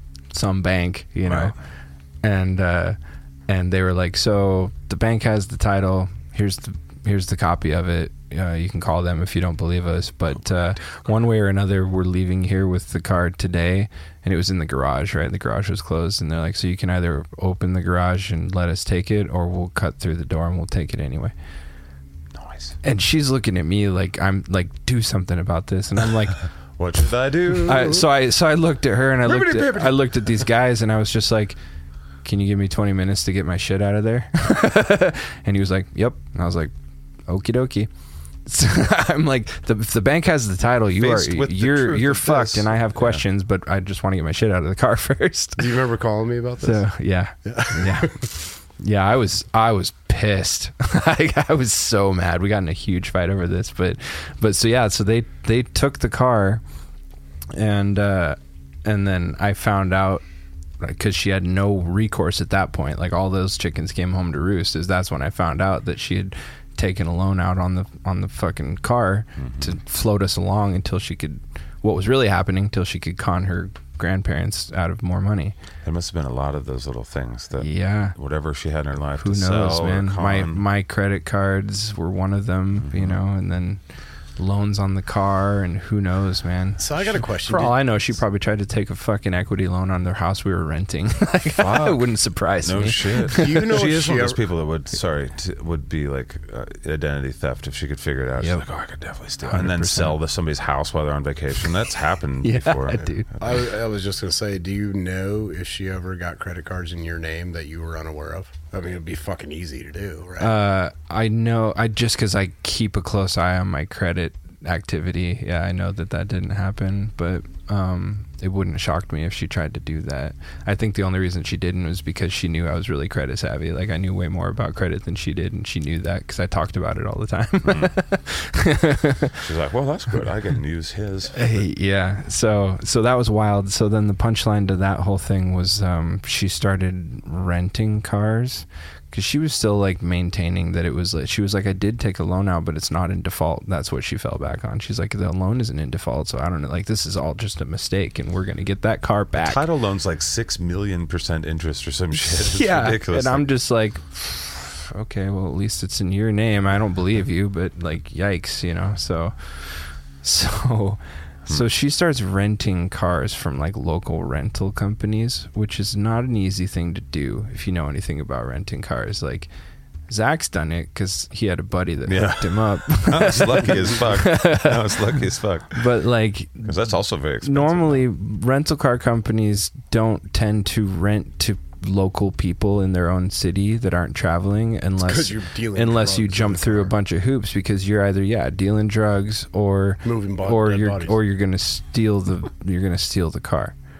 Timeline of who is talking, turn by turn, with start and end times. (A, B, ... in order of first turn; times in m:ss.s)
0:00.3-0:21.3 A
0:01.3-0:01.6 B
0:10.5-0:11.1 B
0:22.4-0:22.8 B
0:22.8-0:26.5 A
0:26.8-0:28.1 B
0:27.7-0:31.6 A
0:29.2-0:30.2 B
0:32.2-0:36.7 A
0:37.3-0:45.8 A
0:41.0-0:43.2 B
0:45.6-0:46.9 C
0:46.6-0:56.6 A
0:47.4-0:48.2 C
0:57.5-1:00.3 A
1:00.8-1:15.6 A
1:09.4-1:09.8 B
1:15.8-1:20.6 B
1:17.6-1:18.2 A
1:19.2-1:33.5 A
1:22.8-1:23.2 B
1:26.8-1:27.8 C
1:31.6-1:43.6 B
1:33.3-1:34.4 C
1:38.4-1:38.7 A
1:39.4-1:40.2 A
1:42.4-1:43.4 A
1:43.4-1:50.6 C
1:50.4-2:09.3 A
2:07.6-2:08.0 B
2:09.4-2:11.6 B
2:11.4-2:29.6 A
2:29.4-2:33.4 B
2:32.2-2:49.5 A
2:50.1-2:55.0 A
2:52.1-2:55.9 B
2:55.8-3:13.8 A
2:56.6-2:58.1 B
3:05.0-3:06.9 C
3:10.0-3:11.2 C